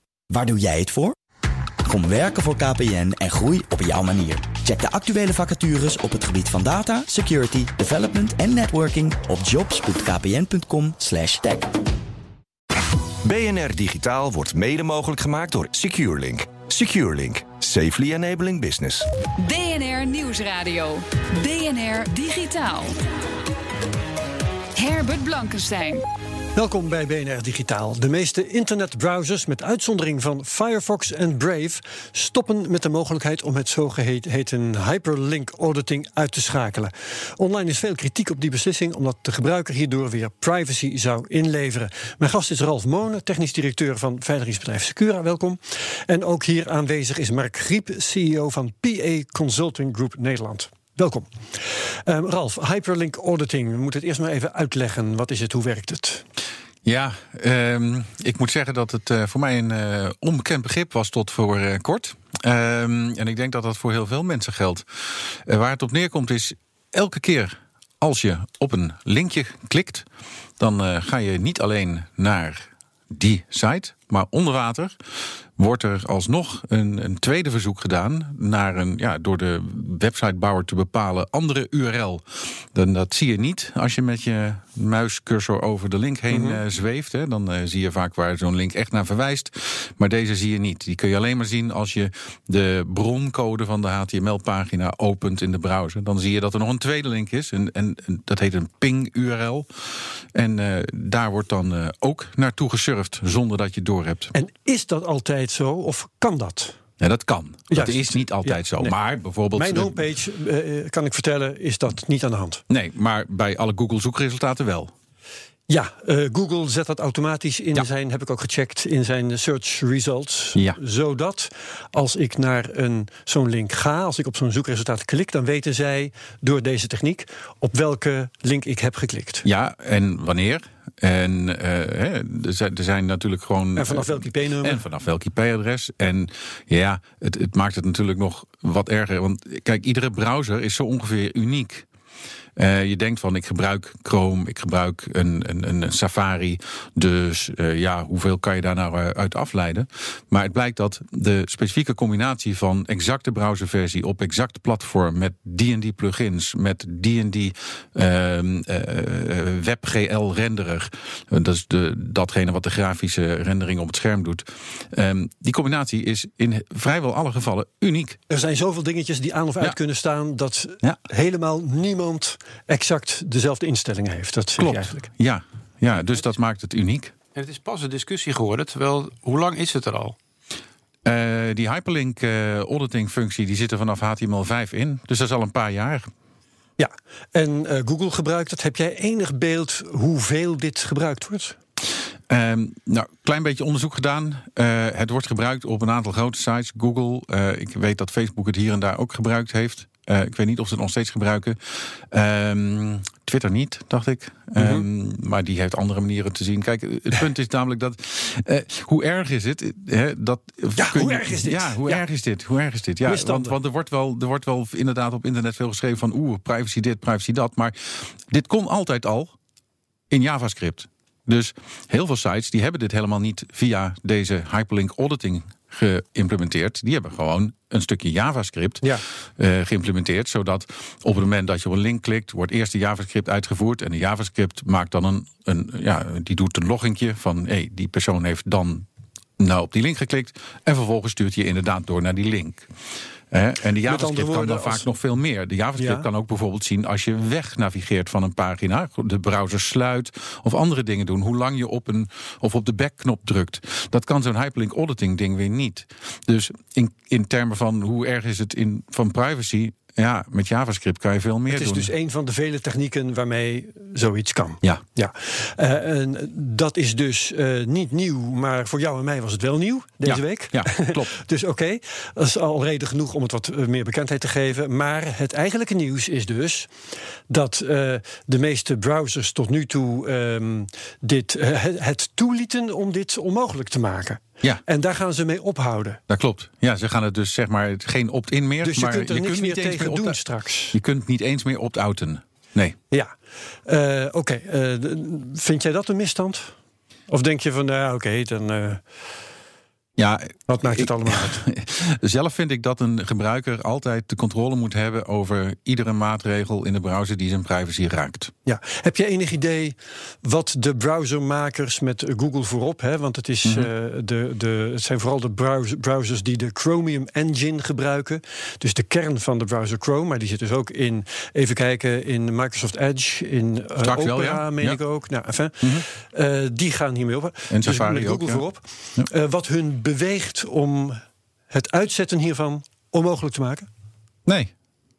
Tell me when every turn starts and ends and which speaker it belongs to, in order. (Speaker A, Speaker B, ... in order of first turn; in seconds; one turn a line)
Speaker A: 0.3-1.1
Speaker A: 1.9-11.7
Speaker B: 13.2-19.1
Speaker C: 19.4-22.9
Speaker C: 24.8-26.0
Speaker D: 26.6-56.2
Speaker E: 56.9-70.1
Speaker E: 70.6-75.0
Speaker E: 75.6-104.3
Speaker D: 86.3-86.6
Speaker D: 104.3-106.8
Speaker E: 107.0-110.0
Speaker D: 107.7-109.0
Speaker D: 109.5-112.6
Speaker E: 112.7-114.9
Speaker D: 115.7-129.5
Speaker E: 129.4-141.9
Speaker D: 133.8-134.8
Speaker E: 142.6-168.2
Speaker D: 168.3-175.1
Speaker E: 174.6-177.1
Speaker F: 177.3-180.2
Speaker E: 181.1-186.1
Speaker D: 186.8-191.6
Speaker E: 192.3-219.3
Speaker D: 204.6-204.8
Speaker D: 210.8-212.0
Speaker D: 213.1-213.6
Speaker E: 220.1-238.9
Speaker E: 239.4-242.7
Speaker E: 243.3-261.9
Speaker D: 243.8-244.9
Speaker D: 245.8-246.1
Speaker D: 261.5-276.7
Speaker E: 270.0-271.1
Speaker D: 277.3-286.0
Speaker E: 286.1-290.2
Speaker D: 288.6-290.8
Speaker E: 290.7-292.8
Speaker D: 293.7-296.5
Speaker D: 297.1-298.8
Speaker E: 300.0-308.3
Speaker D: 300.5-301.4
Speaker D: 308.5-333.7
Speaker E: 313.4-313.7
Speaker E: 323.8-324.8
Speaker E: 325.6-325.9
Speaker E: 327.5-328.4
Speaker E: 334.3-334.5